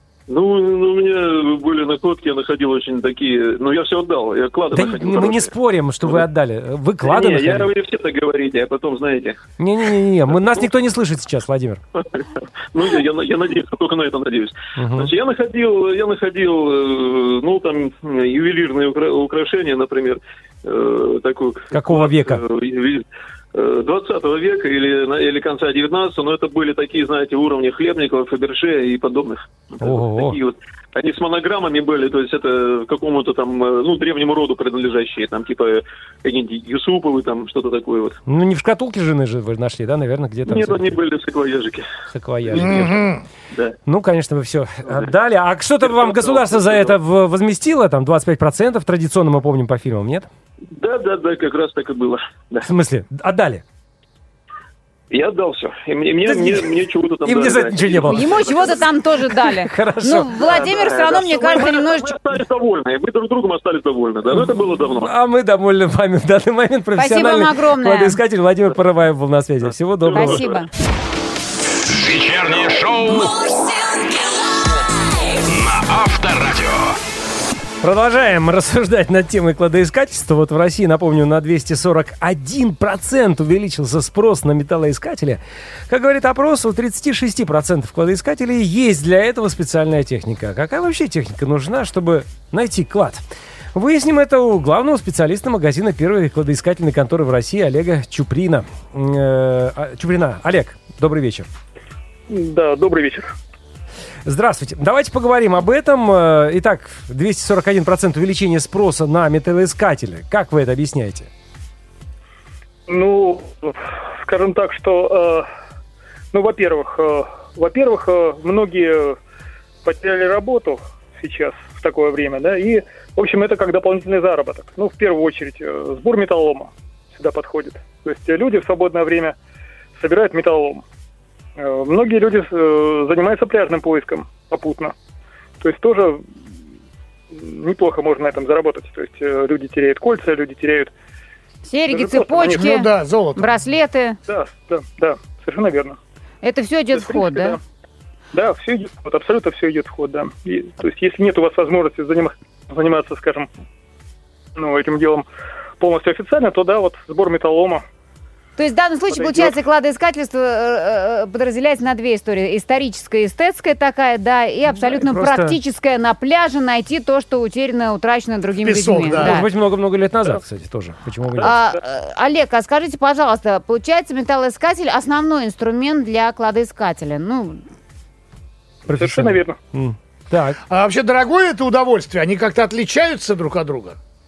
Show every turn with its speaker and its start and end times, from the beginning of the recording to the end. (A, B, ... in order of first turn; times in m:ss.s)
0:00.3-0:05.5 A
0:04.7-0:07.7 B
0:07.0-0:09.4 A
0:09.6-0:11.8 B
0:11.9-0:38.2 A
0:14.8-0:15.1 B
0:21.7-0:22.4 B
0:29.8-0:30.4 B
0:38.3-0:41.0 B
0:40.5-0:41.9 A
0:42.1-0:43.0 B
0:42.4-0:43.0 A
0:42.5-0:43.2 C
0:43.9-0:50.3 B
0:45.8-0:47.0 A
0:50.7-0:52.7 A
0:52.6-0:53.6 B
0:55.1-0:58.9 A
0:56.2-0:56.7 B
0:57.2-1:00.3 B
0:58.1-1:02.1 D
1:00.4-1:05.1 A
1:04.3-1:10.4 B
1:07.0-1:08.2 D
1:10.1-1:10.4 A
1:10.1-1:10.7 D
1:11.9-1:13.5 E
1:15.4-1:17.0 E
1:17.8-1:33.2 B
1:33.7-1:41.5 B
1:42.3-1:43.4 F
1:44.2-1:51.3 B
1:52.9-1:55.5 F
1:56.3-1:59.2 F
1:59.8-2:09.4 F
2:10.0-2:10.8 F
2:11.6-2:14.9 F
2:15.6-2:16.2 F
2:17.3-2:20.9 F
2:21.6-2:24.2 D
2:21.9-2:22.7 F
2:22.6-2:23.5 C
2:24.3-2:26.0 F
2:26.4-2:27.6 D
2:26.9-2:27.6 F
2:28.3-2:33.5 F
2:34.6-2:35.2 F
2:35.8-2:37.8 F
2:38.6-2:49.5 D
2:39.1-2:39.5 F
2:44.8-2:45.6 B
2:48.6-2:49.4 C
2:49.2-2:51.6 B
2:51.4-2:57.6 D
2:58.9-2:59.6 F
2:58.9-3:00.6 B
3:00.7-3:04.0 C